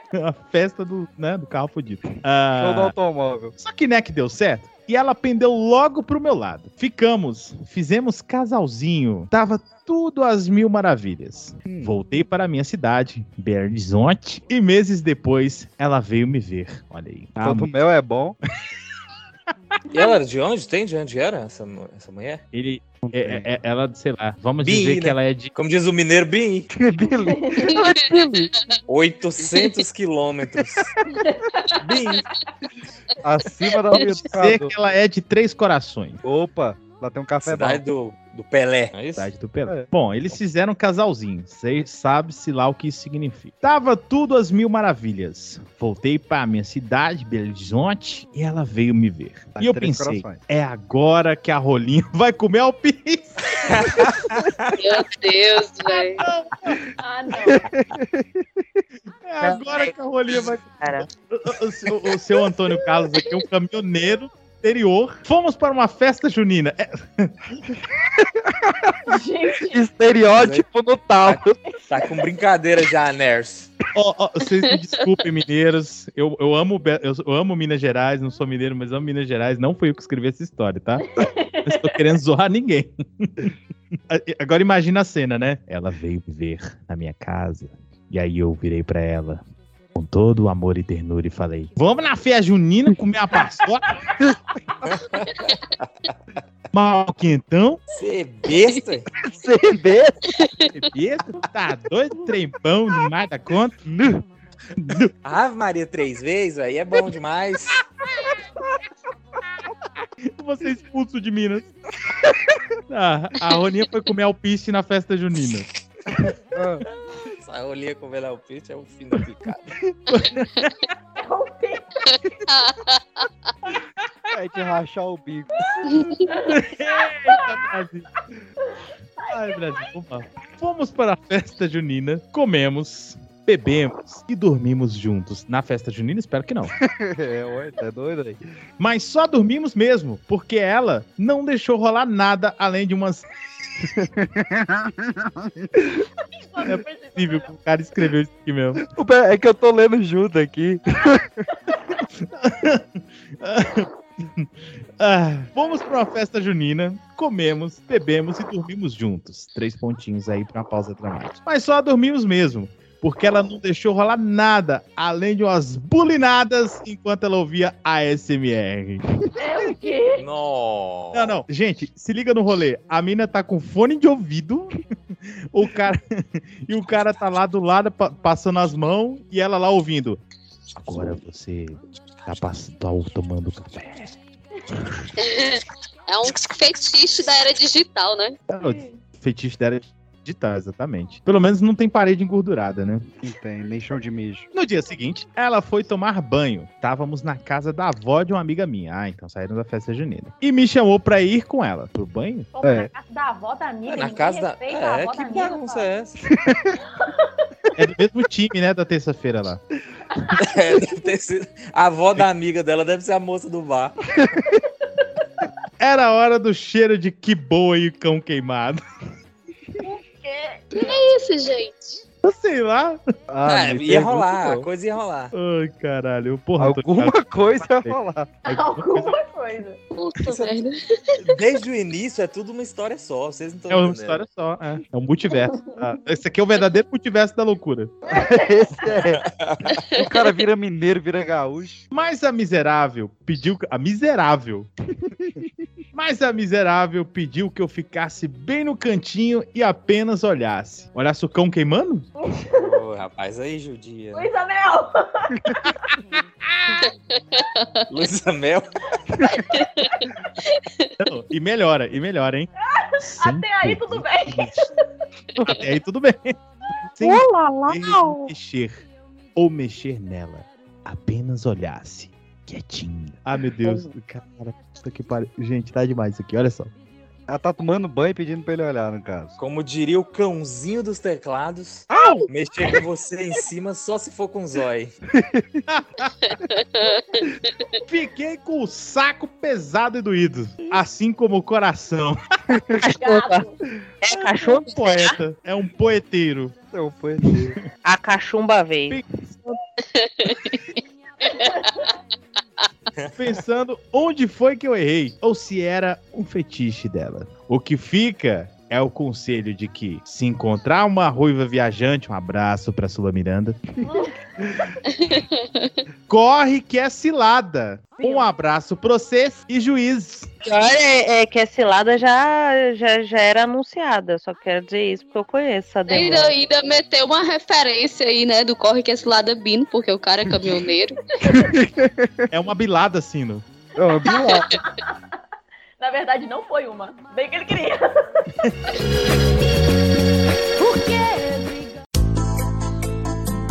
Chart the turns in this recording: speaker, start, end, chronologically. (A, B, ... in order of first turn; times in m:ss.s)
0:00.1-0:02.9 A
0:02.6-0:03.5 B
0:03.6-0:17.7 A
0:11.6-0:12.0 B
0:17.4-0:18.4 B
0:19.9-0:22.4 C
0:22.5-0:25.5 A
0:23.0-0:23.4 B
0:24.6-0:26.7 C
0:26.7-0:27.7 B
0:27.2-0:27.7 D
0:27.7-0:28.1 E
0:28.9-0:30.9 C
0:31.8-0:32.2 C
0:33.2-0:34.7 B
0:34.3-0:36.2 A
0:36.2-0:37.8 B
0:37.4-0:39.3 C
0:39.2-0:53.3 A
0:49.6-0:50.4 B
0:54.8-0:56.2 E
0:56.2-0:56.8 A
0:57.0-0:57.6 D
0:57.4-0:58.3 B
0:59.2-1:07.3 A
0:59.4-0:59.9 F
1:00.7-1:01.0 F
1:08.5-1:08.9 B
1:09.1-1:09.8 D
1:09.7-1:11.6 B
1:10.4-1:10.6 C
1:11.2-1:13.7 C
1:13.9-1:21.0 A
1:14.6-1:15.0 E
1:21.1-1:22.0 D
1:21.6-1:23.3 A
1:24.1-1:29.4 A
1:30.0-1:33.9 A
1:36.7-1:37.8 A
1:37.9-1:39.0 C
1:39.2-1:40.2 B
1:40.9-1:43.9 A
1:43.9-1:44.2 B
1:44.8-1:45.1 A
1:45.2-1:47.8 C
1:50.2-1:51.7 A
1:52.9-1:55.6 A
1:56.5-1:56.8 B
1:57.4-1:59.7 C
2:00.1-2:00.7 A
2:01.2-2:02.0 D
2:02.1-2:03.2 E
2:04.3-2:05.5 B
2:05.9-2:06.2 E
2:06.3-2:07.7 D
2:06.5-2:08.0 A
2:09.2-2:09.9 D
2:09.3-2:16.7 A
2:16.8-2:18.4 B
2:18.8-2:23.2 A
2:23.8-2:25.5 B
2:26.4-2:27.5 D
2:26.6-2:28.8 A
2:28.9-2:31.2 B
2:32.3-2:49.0 A
2:49.4-2:50.2 D
2:50.2-2:51.4 C
2:51.1-2:54.8 A
2:55.5-3:00.2 A
3:00.8-3:04.1 A
3:05.2-3:08.4 E
3:08.5-3:13.0 A
3:13.2-3:14.5 B
3:14.5-3:22.5 A
3:22.5-3:26.0 D
3:22.6-3:22.9 B
3:23.9-3:26.1 C
3:26.4-3:26.7 B
3:27.8-3:29.6 A
3:30.4-3:34.0 C
3:35.8-3:38.8 A
3:39.8-3:40.9 D
3:40.7-3:42.0 E
3:42.2-3:43.0 A
3:43.3-3:44.7 B
3:43.4-3:45.3 C
3:45.3-3:49.1 A
3:46.6-3:48.3 B
3:48.4-3:49.8 D
3:49.9-3:50.8 E
3:50.3-3:50.5 C
3:51.2-3:54.2 C
3:53.7-3:57.9 A
3:55.3-3:55.9 D
3:58.1-3:59.0 D
3:58.1-3:59.2 B
4:00.0-4:01.8 B
4:01.9-4:04.7 A
4:05.0-4:05.5 B
4:05.9-4:12.0 A
4:12.2-4:12.7 D
4:12.5-4:14.3 C
4:14.1-4:15.3 D
4:16.8-4:17.8 E
4:17.9-4:18.6 C
4:21.0-4:22.5 A
4:22.7-4:24.7 D
4:23.1-4:24.6 A
4:25.4-4:26.4 A
4:27.0-4:28.8 A
4:27.0-4:27.9 D
4:29.4-4:36.7 A
4:37.3-4:39.4 B
4:39.4-4:44.9 C
4:41.9-4:42.2 B
4:45.1-4:45.6 B
4:45.7-4:46.1 A
4:46.6-4:47.7 E
4:47.9-4:52.2 A
4:52.8-4:53.4 F
4:52.9-4:53.5 D
4:54.0-4:54.7 F
4:54.1-4:56.5 A
4:56.7-4:57.5 B
4:57.8-4:59.0 F
5:00.0-5:01.5 E
5:03.2-5:13.6 A
5:13.8-5:14.1 D
5:15.1-5:15.8 E
5:16.1-5:20.3 A
5:18.0-5:18.3 D
5:20.4-5:26.3 F
5:25.9-5:31.0 E
5:30.3-5:30.6 B
5:31.2-5:32.2 B
5:32.3-5:33.4 A
5:33.8-5:34.5 B
5:34.0-5:34.9 D
5:35.8-5:37.9 D